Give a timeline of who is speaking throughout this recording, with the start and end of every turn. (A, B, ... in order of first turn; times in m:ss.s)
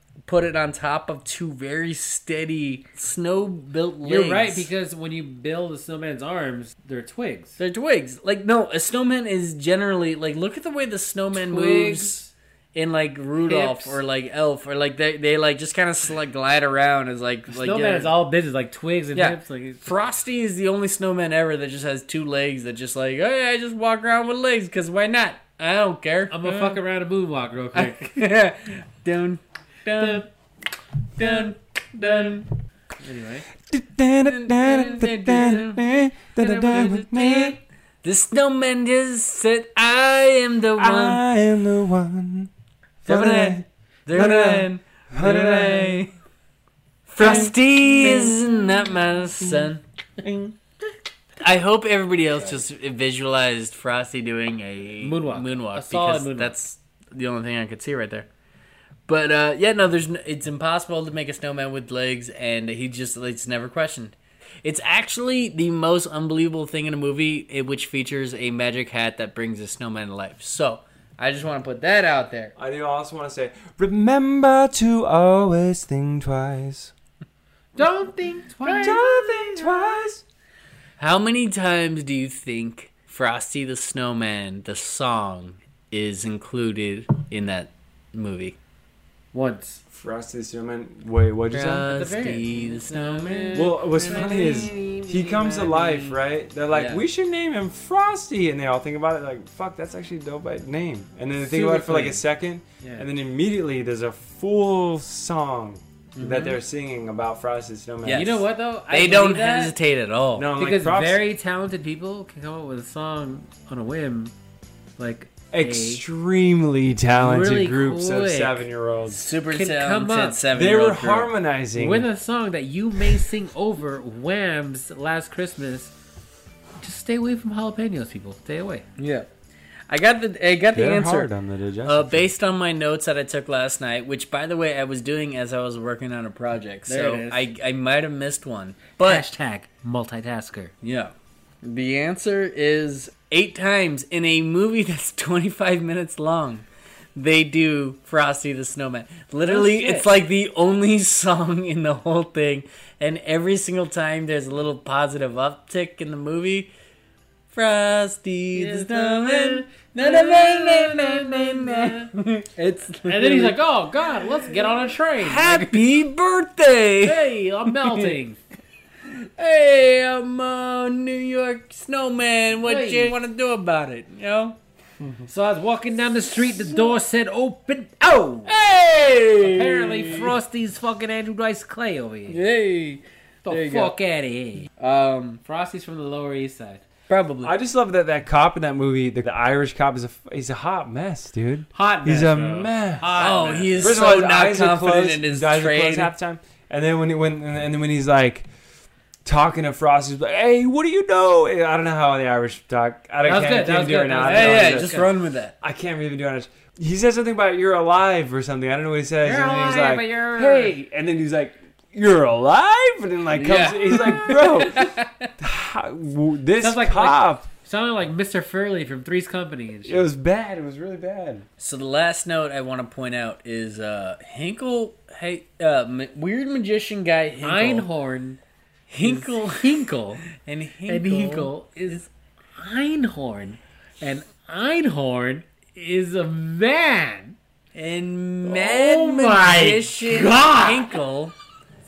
0:00.2-0:04.7 A
0:04.0-0:07.6 B
0:07.6-0:18.1 A
0:11.3-0:12.1 B
0:13.4-0:14.0 B
0:17.5-0:19.8 B
0:19.1-0:26.8 A
0:26.3-0:28.0 B
0:27.7-0:30.2 A
0:30.0-0:30.2 B
0:31.2-0:32.4 A
0:31.2-0:31.5 B
0:33.0-0:33.5 B
0:33.6-0:37.6 C
0:34.3-0:35.8 A
0:36.4-0:37.0 B
0:36.5-0:41.2 A
0:40.8-0:42.5 C
0:43.0-0:46.0 C
0:43.0-0:46.1 A
0:47.1-0:49.8 A
0:47.2-0:48.4 C
0:48.0-0:48.3 B
0:49.4-0:50.5 C
0:51.4-0:58.3 A
0:55.0-0:56.5 B
0:59.1-1:12.5 A
1:12.6-1:16.9 C
1:17.8-1:20.0 B
1:18.7-1:20.2 C
1:21.0-1:28.6 A
1:29.3-1:29.8 B
1:29.9-1:31.9 C
1:31.5-1:34.3 A
1:31.8-1:36.2 B
1:33.5-1:48.4 C
1:36.7-1:37.0 A
1:41.4-1:42.2 B
1:42.8-1:43.1 B
1:46.2-1:46.6 A
1:48.0-1:48.4 A
1:48.1-1:49.8 B
1:48.9-1:50.5 A
1:50.3-1:51.2 C
1:50.6-1:54.3 B
1:55.0-1:56.0 B
1:55.5-1:59.2 C
1:57.1-1:58.6 B
1:59.1-2:01.3 A
1:59.5-2:00.4 B
2:00.5-2:02.1 C
2:01.7-2:05.9 B
2:06.8-2:08.8 B
2:09.0-2:09.3 A
2:09.9-2:11.3 A
2:10.7-2:12.3 C
2:11.8-2:19.2 A
2:16.9-2:17.4 B
2:19.0-2:20.7 B
2:20.8-2:26.6 A
2:27.2-2:36.7 A
2:29.4-2:30.1 B
2:37.5-2:43.6 A
2:38.5-2:42.1 B
2:43.0-2:45.8 B
2:45.2-2:48.1 A
2:47.0-2:48.4 B
2:49.1-2:54.6 A
2:52.6-2:53.2 B
2:55.2-2:58.5 B
2:58.5-3:00.3 A
2:59.4-3:02.4 B
3:02.3-3:03.9 A
3:03.4-3:04.7 B
3:04.8-3:05.4 A
3:05.4-3:06.8 B
3:07.1-3:07.5 A
3:07.4-3:13.1 C
3:11.7-3:14.0 B
3:13.1-3:16.1 A
3:13.8-3:18.5 C
3:19.2-3:25.1 C
3:23.2-3:25.1 B
3:24.2-3:25.5 A
3:25.6-3:37.5 C
3:29.2-3:30.7 B
3:33.3-3:35.3 A
3:36.6-3:40.0 B
3:39.8-3:41.4 C
3:41.6-3:47.9 A
3:47.4-3:48.4 B
3:48.9-3:52.0 A
3:49.0-3:50.3 B
3:50.9-3:57.3 B
3:57.7-4:01.3 A
3:58.4-4:01.0 B